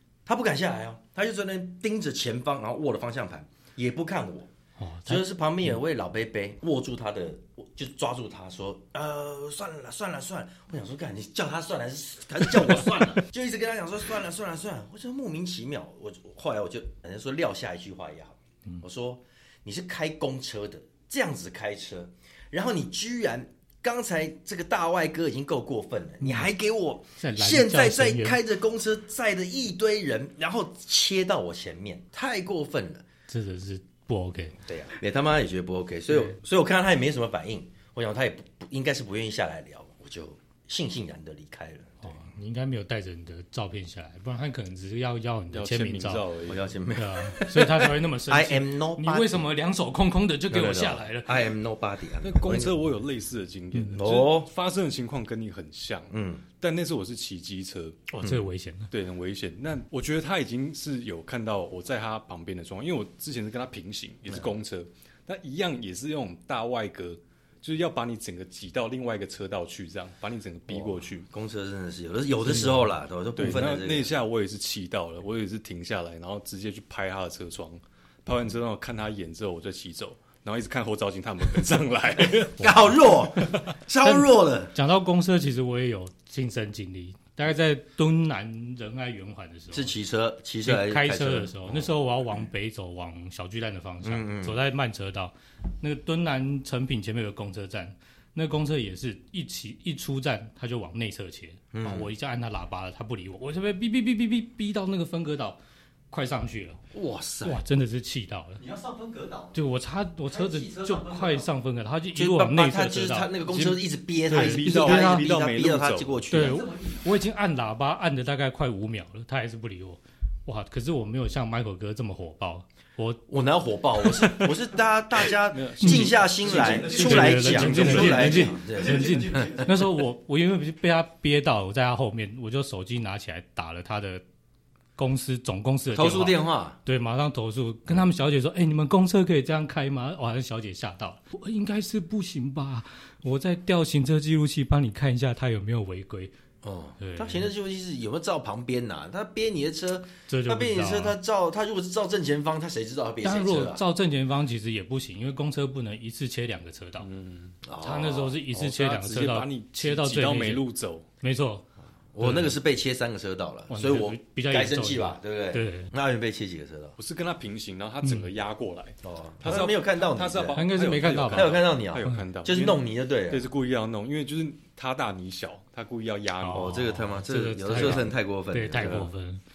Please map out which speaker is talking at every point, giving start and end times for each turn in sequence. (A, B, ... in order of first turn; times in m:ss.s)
0:00.2-0:04.5 A
0:04.8-0:05.2 B
0:05.0-0:33.0 A
0:26.2-0:26.5 B
0:27.2-0:28.4 B
0:33.3-0:34.6 B
0:34.6-0:42.2 A
0:42.0-0:46.2 B
0:45.5-0:46.6 C
0:46.4-0:49.4 A
0:46.9-0:51.4 B
0:50.5-0:52.8 A
0:52.2-0:58.0 C
0:53.9-0:54.5 A
0:56.1-0:56.4 A
0:58.1-0:58.9 B
0:58.9-1:11.3 C
1:10.7-1:14.1 A
1:13.4-1:22.9 C
1:22.6-1:24.7 A
1:22.6-1:22.9 B
1:24.0-1:29.9 B
1:29.7-1:31.9 A
1:30.6-1:45.6 B
1:34.0-1:34.6 A
1:41.7-1:42.1 A
1:46.1-1:46.8 B
1:46.9-1:47.6 A
1:47.4-1:48.6 B
1:48.6-1:49.6 D
1:49.5-1:53.5 B
1:50.3-1:51.5 D
1:52.1-1:56.7 A
1:53.5-1:56.2 C
1:54.3-1:55.2 B
1:56.3-2:03.2 B
1:56.3-1:57.2 D
2:03.3-2:09.6 A
2:04.0-2:04.5 B
2:05.5-2:08.4 C
2:05.8-2:14.2 B
2:06.4-2:09.9 D
2:15.0-2:26.3 B
2:15.9-2:16.8 A
2:26.6-2:33.8 A
2:27.0-2:27.5 B
2:30.3-2:31.2 B
2:33.2-2:37.1 B
2:37.0-2:37.6 C
2:37.6-2:38.4 A
2:37.8-2:40.6 B
2:38.5-2:41.0 C
2:41.2-2:41.6 B
2:42.1-2:47.0 A
2:42.2-2:42.5 B
2:43.7-2:45.9 B
2:47.0-2:56.8 C
2:48.0-2:48.3 B
2:49.0-2:53.4 A
2:50.5-2:52.2 B
2:56.4-2:59.4 B
2:56.5-2:59.1 A